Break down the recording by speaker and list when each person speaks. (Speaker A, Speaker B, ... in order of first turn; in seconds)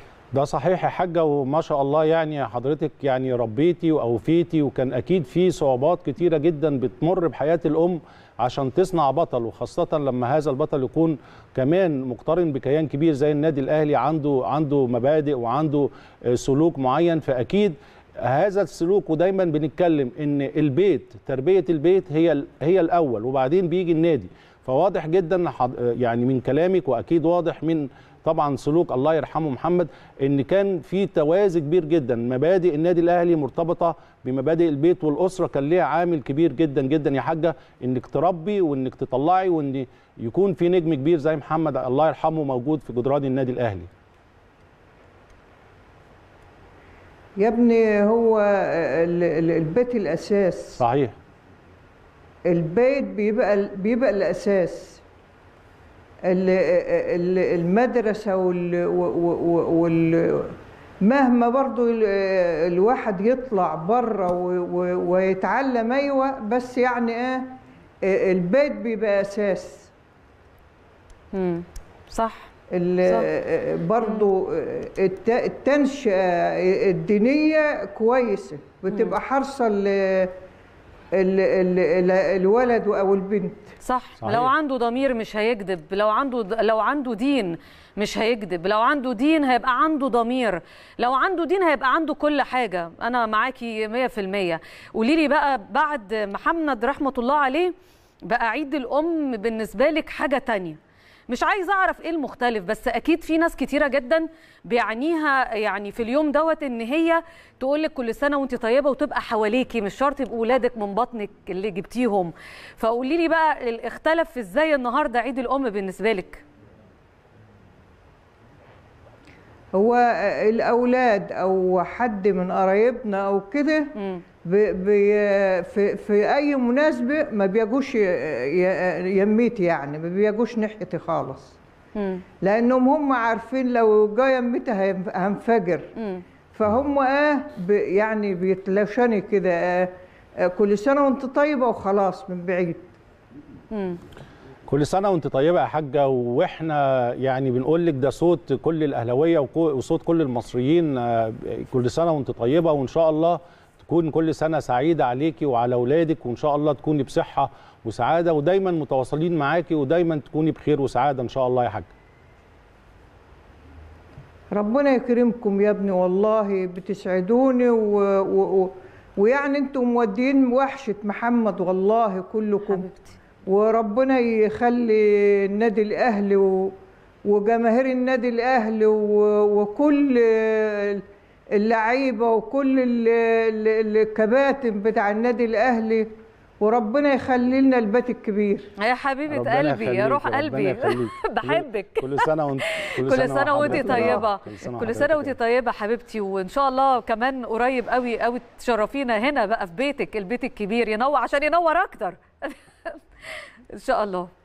Speaker A: 0.3-43.9, 50.8-51.2, 84.2-84.5, 144.7-161.9, 189.3-195.3
Speaker B: 47.4-50.8, 52.5-55.0, 56.2-69.9, 72.7-80.3, 81.2-83.7, 119.8-123.9, 124.5-131.6, 132.4-135.9, 136.5-139.9, 140.4-142.9, 164.5-172.9, 173.5-181.0, 181.6-186.1, 186.6-188.7, 193.6-194.3
Speaker C: 71.3-72.5, 74.0-74.3, 83.8-97.7, 98.3-100.8, 101.3-116.4, 124.0-124.2, 131.9-132.2, 136.0-136.2, 143.7-144.0, 172.7-173.2, 188.8-204.3